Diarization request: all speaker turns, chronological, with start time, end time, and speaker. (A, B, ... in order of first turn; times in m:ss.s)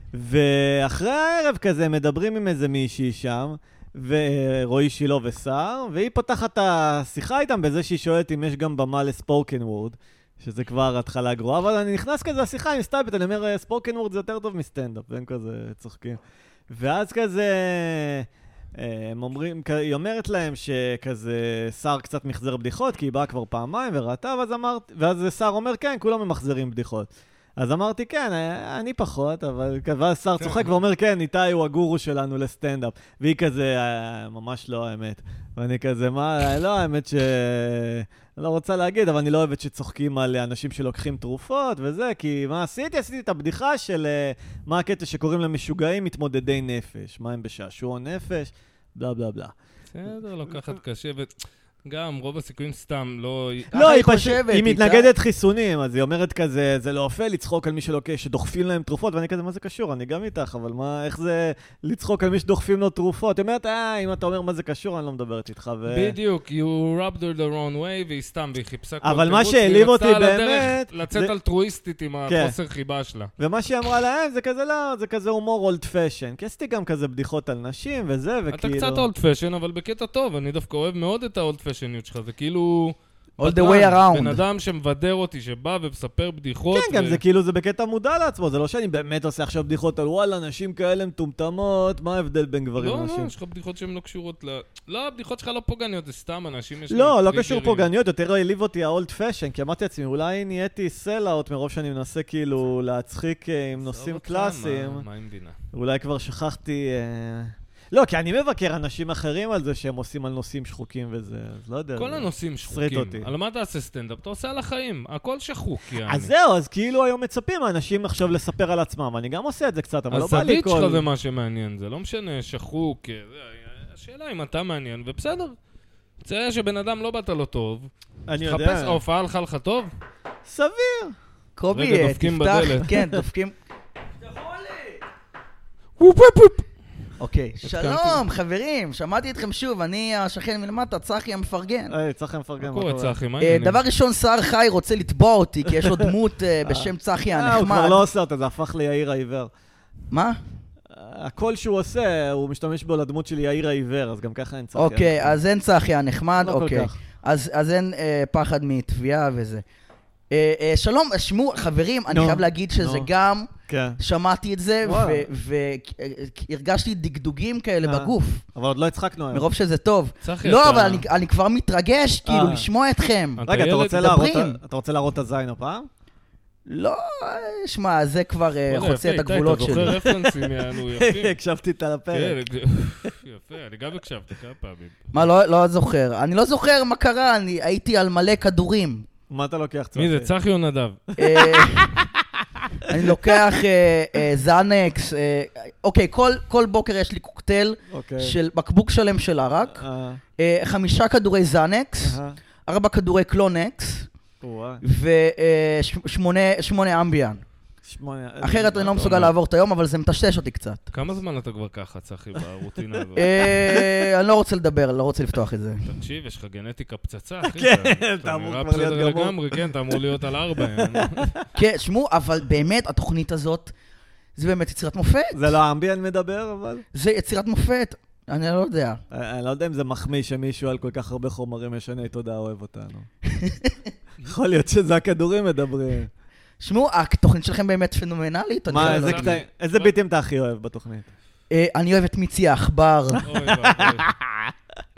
0:00.1-0:49.5 A
0:30.4-0:30.7 B
0:49.9-0:53.7 B
0:53.7-0:55.1 C
0:53.7-1:06.1 A
1:05.9-1:13.3 B
1:09.0-1:11.3 A
1:12.3-1:12.6 A
1:13.4-1:19.1 A
1:18.5-1:27.2 B
1:23.4-1:24.4 C
1:26.7-1:33.3 A
1:32.8-1:37.9 B
1:36.9-1:45.0 A
1:43.8-1:45.6 B
1:45.7-1:53.3 A
1:52.0-1:56.3 B
1:56.0-2:01.0 A
2:00.1-2:05.6 B
2:06.2-2:09.9 B
2:08.3-2:09.0 A
2:10.4-2:11.2 A
2:11.6-2:13.5 C
2:11.7-2:12.9 B
2:14.2-2:15.0 C
2:16.0-2:16.7 B
2:17.2-2:21.9 C
2:17.6-2:18.2 B
2:21.9-2:23.2 A
2:22.6-2:23.8 B
2:23.4-2:28.0 C
2:25.8-2:26.1 A
2:26.6-2:29.5 A
2:30.1-2:30.4 C
2:30.9-2:35.4 A
2:34.7-2:39.6 C
2:36.4-2:37.0 A
2:40.3-2:48.4 C
2:42.1-2:43.1 A
2:43.7-2:44.0 A
2:44.8-2:45.3 A
2:47.8-2:49.4 A
2:49.3-2:54.6 C
2:50.2-2:51.0 B
2:52.2-2:52.7 A
2:53.4-2:54.0 B
2:53.4-2:55.9 A
2:56.6-2:59.9 C
2:58.7-3:01.3 B
2:59.7-3:02.4 A
3:02.1-3:05.0 B
3:05.1-3:09.0 C
3:09.3-3:10.3 A
3:09.9-3:11.0 B
3:11.2-3:12.0 C
3:11.2-3:11.9 A
3:12.9-3:19.8 C
3:13.0-3:13.4 A
3:17.9-3:18.4 A
3:19.6-3:20.2 A
3:20.4-3:24.1 C
3:22.0-3:22.4 A
3:24.4-3:24.8 A
3:24.8-3:27.4 C
3:27.8-3:29.3 A
3:28.4-3:30.9 C
3:30.9-3:33.5 B
3:33.2-3:35.9 C
3:35.8-3:41.3 B
3:37.4-3:40.0 A
3:40.6-3:41.4 A
3:41.5-3:43.7 C
3:44.4-3:45.5 C
3:45.3-3:46.8 A
3:46.9-3:49.0 C
3:49.1-3:53.1 A
3:53.3-3:53.9 C
3:54.2-3:56.1 A
3:56.6-3:59.4 C
3:58.7-4:01.1 A
3:58.7-3:59.9 B
4:01.5-4:03.2 C
4:03.2-4:04.1 B
4:03.6-4:04.1 A